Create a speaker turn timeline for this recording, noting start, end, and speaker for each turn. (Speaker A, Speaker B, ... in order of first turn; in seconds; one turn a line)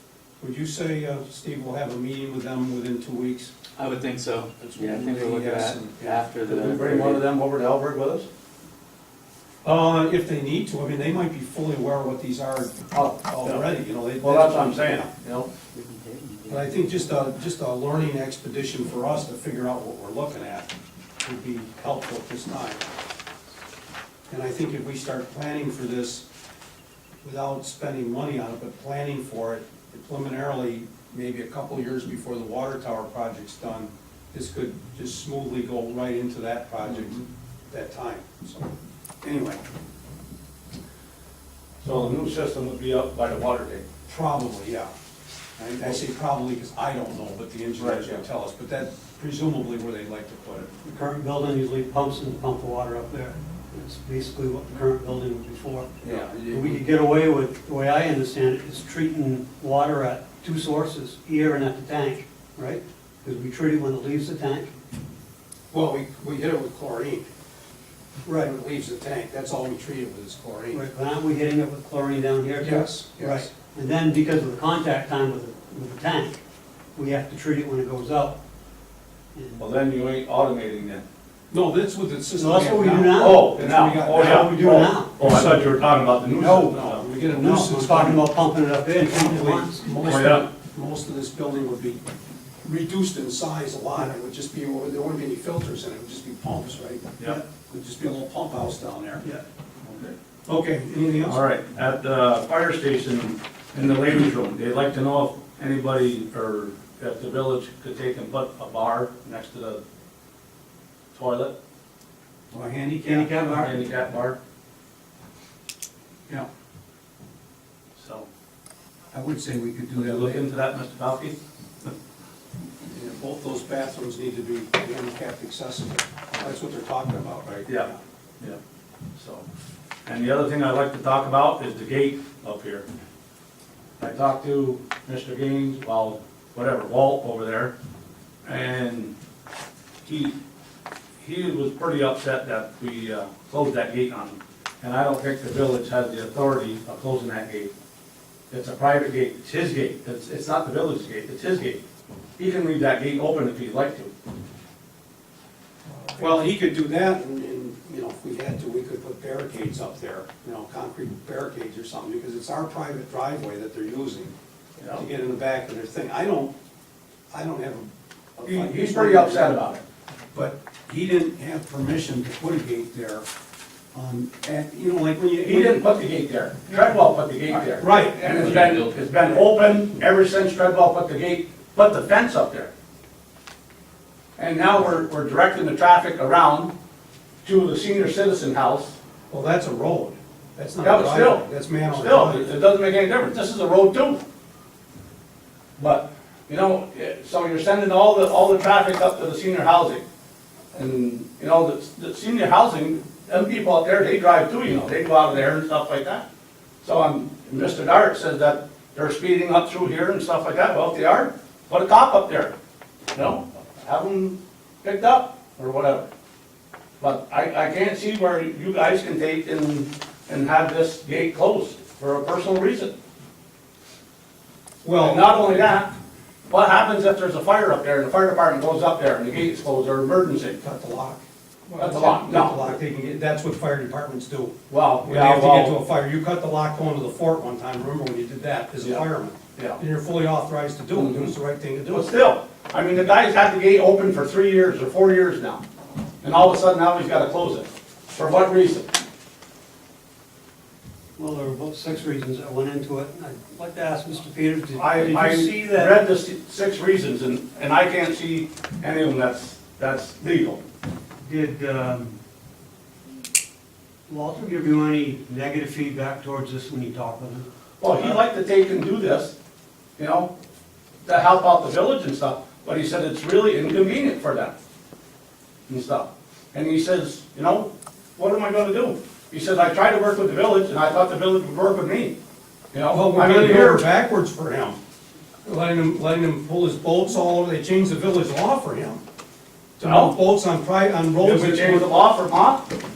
Speaker A: 0.4-3.5
Speaker B: 3.8-7.2
Speaker A: 4.6-6.2
Speaker C: 6.5-8.3
Speaker A: 9.6-15.1
Speaker C: 12.9-13.7
Speaker C: 14.2-15.5
Speaker B: 15.5-16.9
Speaker A: 16.5-20.7
Speaker A: 21.2-22.8
Speaker A: 24.3-26.2
Speaker A: 27.2-39.6
Speaker C: 41.8-43.8
Speaker A: 44.1-44.9
Speaker A: 45.6-50.7
Speaker C: 47.8-48.2
Speaker D: 50.8-64.7
Speaker A: 56.0-56.5
Speaker C: 56.0-56.7
Speaker A: 65.7-67.3
Speaker D: 68.2-68.5
Speaker A: 68.3-70.8
Speaker D: 70.7-76.4
Speaker A: 72.5-73.5
Speaker D: 76.9-78.4
Speaker D: 79.3-79.6
Speaker C: 79.6-81.0
Speaker A: 81.5-84.7
Speaker D: 82.3-85.6
Speaker C: 83.1-87.0
Speaker A: 85.2-85.7
Speaker D: 86.3-90.1
Speaker A: 86.7-88.3
Speaker A: 89.0-92.0
Speaker C: 90.0-90.4
Speaker A: 92.6-99.2
Speaker C: 99.8-100.2
Speaker A: 100.5-101.4
Speaker C: 101.2-109.8
Speaker C: 111.1-111.5
Speaker A: 112.5-113.3
Speaker D: 113.0-113.8
Speaker C: 113.1-114.4
Speaker C: 118.0-118.3
Speaker A: 119.1-120.4
Speaker C: 119.9-121.4
Speaker A: 122.9-128.0
Speaker C: 127.7-128.6
Speaker C: 129.2-129.4
Speaker C: 130.1-132.9
Speaker C: 134.0-137.7
Speaker C: 138.4-139.1
Speaker C: 140.1-140.3
Speaker C: 141.2-147.7
Speaker C: 148.5-151.8
Speaker C: 152.4-154.1
Speaker A: 156.2-164.3
Speaker A: 164.9-166.5
Speaker A: 167.3-169.7
Speaker C: 168.4-169.8
Speaker A: 170.3-173.2
Speaker A: 173.9-175.8
Speaker C: 175.4-182.7
Speaker A: 177.5-178.7
Speaker C: 184.4-186.7
Speaker C: 187.4-188.9
Speaker A: 189.3-192.5
Speaker C: 190.8-194.2
Speaker C: 195.8-200.0
Speaker C: 200.7-206.2
Speaker C: 206.8-212.5
Speaker C: 213.1-216.1
Speaker C: 217.0-222.9
Speaker A: 224.8-225.3
Speaker C: 225.0-225.9
Speaker C: 226.5-230.6
Speaker A: 230.6-242.0
Speaker C: 231.8-232.7
Speaker C: 234.7-235.8
Speaker C: 240.9-245.6
Speaker C: 246.2-248.9
Speaker D: 251.2-255.9
Speaker C: 254.7-260.6
Speaker D: 261.2-262.2
Speaker D: 264.1-267.5
Speaker C: 267.8-269.3
Speaker C: 270.0-270.3
Speaker C: 271.0-274.5
Speaker C: 275.7-282.2
Speaker C: 282.7-283.9
Speaker A: 282.9-284.8
Speaker A: 285.4-289.0
Speaker A: 289.8-291.9
Speaker C: 289.8-290.1
Speaker C: 291.2-292.6